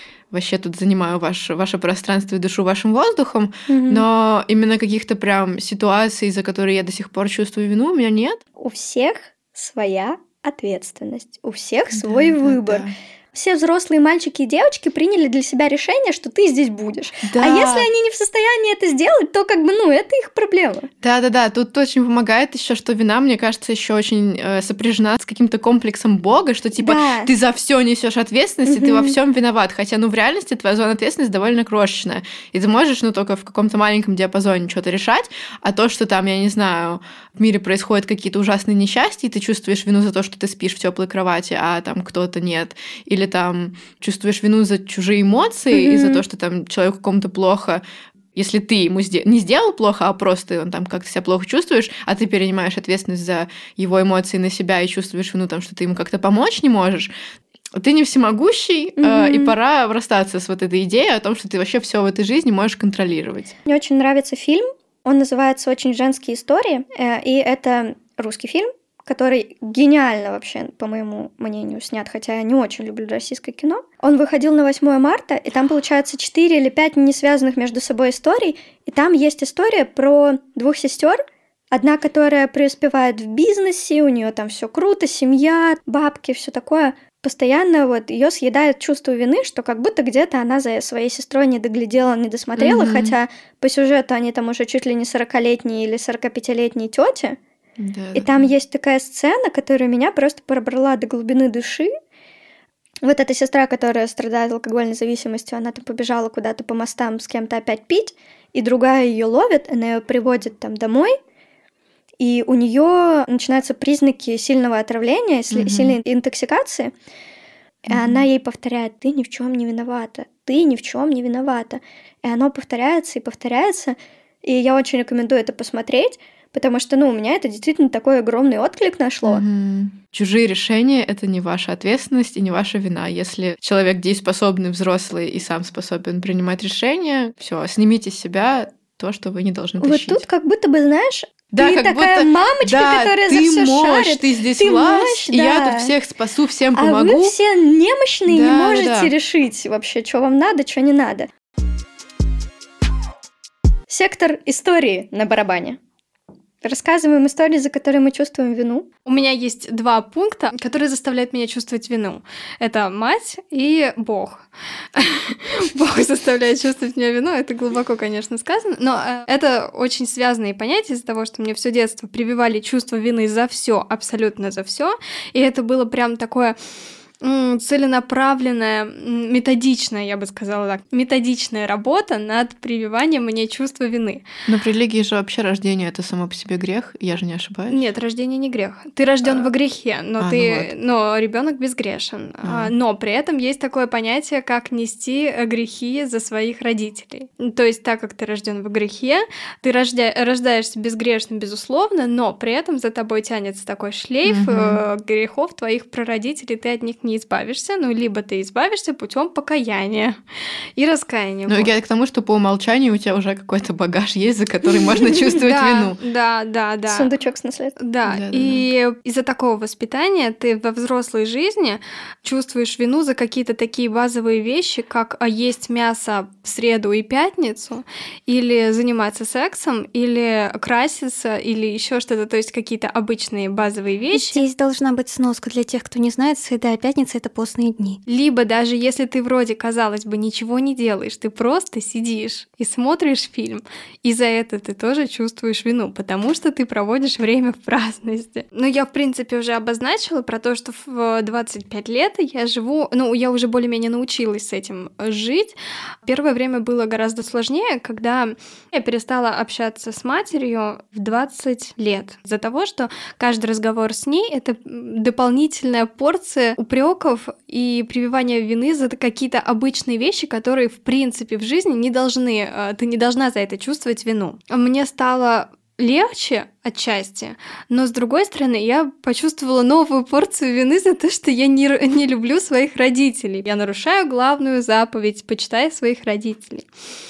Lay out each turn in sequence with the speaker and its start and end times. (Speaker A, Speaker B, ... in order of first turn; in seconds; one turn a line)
Speaker A: 0.3-8.4
Speaker B: 3.7-4.0
Speaker B: 8.6-20.9
Speaker A: 11.9-12.9
Speaker A: 17.2-17.9
Speaker A: 21.0-47.8
Speaker B: 26.8-27.3
Speaker B: 28.6-29.2
Speaker B: 45.7-46.2
Speaker A: 48.3-57.1
Speaker A: 57.8-63.5
Speaker B: 59.0-59.5
Speaker B: 63.6-81.2
Speaker B: 81.7-97.4
Speaker A: 92.6-93.1
Speaker A: 97.8-98.5
Speaker B: 98.1-101.9
Speaker B: 103.0-111.2
Speaker B: 112.2-116.9
Speaker A: 115.5-116.0
Speaker B: 117.8-129.4
Speaker A: 117.9-118.2
Speaker A: 129.2-140.2
Speaker B: 139.8-145.9
Speaker A: 141.5-147.3
Speaker B: 146.7-151.3
Speaker A: 148.3-149.1
Speaker B: 153.9-155.8
Speaker B: 156.6-158.9
Speaker C: 159.1-164.4
Speaker C: 164.9-176.6
Speaker C: 177.2-184.2
Speaker A: 184.4-187.8
Speaker C: 187.7-210.2
Speaker A: 190.2-190.7
Speaker A: 192.4-192.7
Speaker A: 204.2-204.8
Speaker C: 210.8-211.7
Speaker A: 211.5-216.0
Speaker C: 215.3-217.1
Speaker B: 216.9-217.8
Speaker C: 217.8-234.4
Speaker A: 218.1-218.7
Speaker D: 234.1-238.0
Speaker C: 238.1-286.7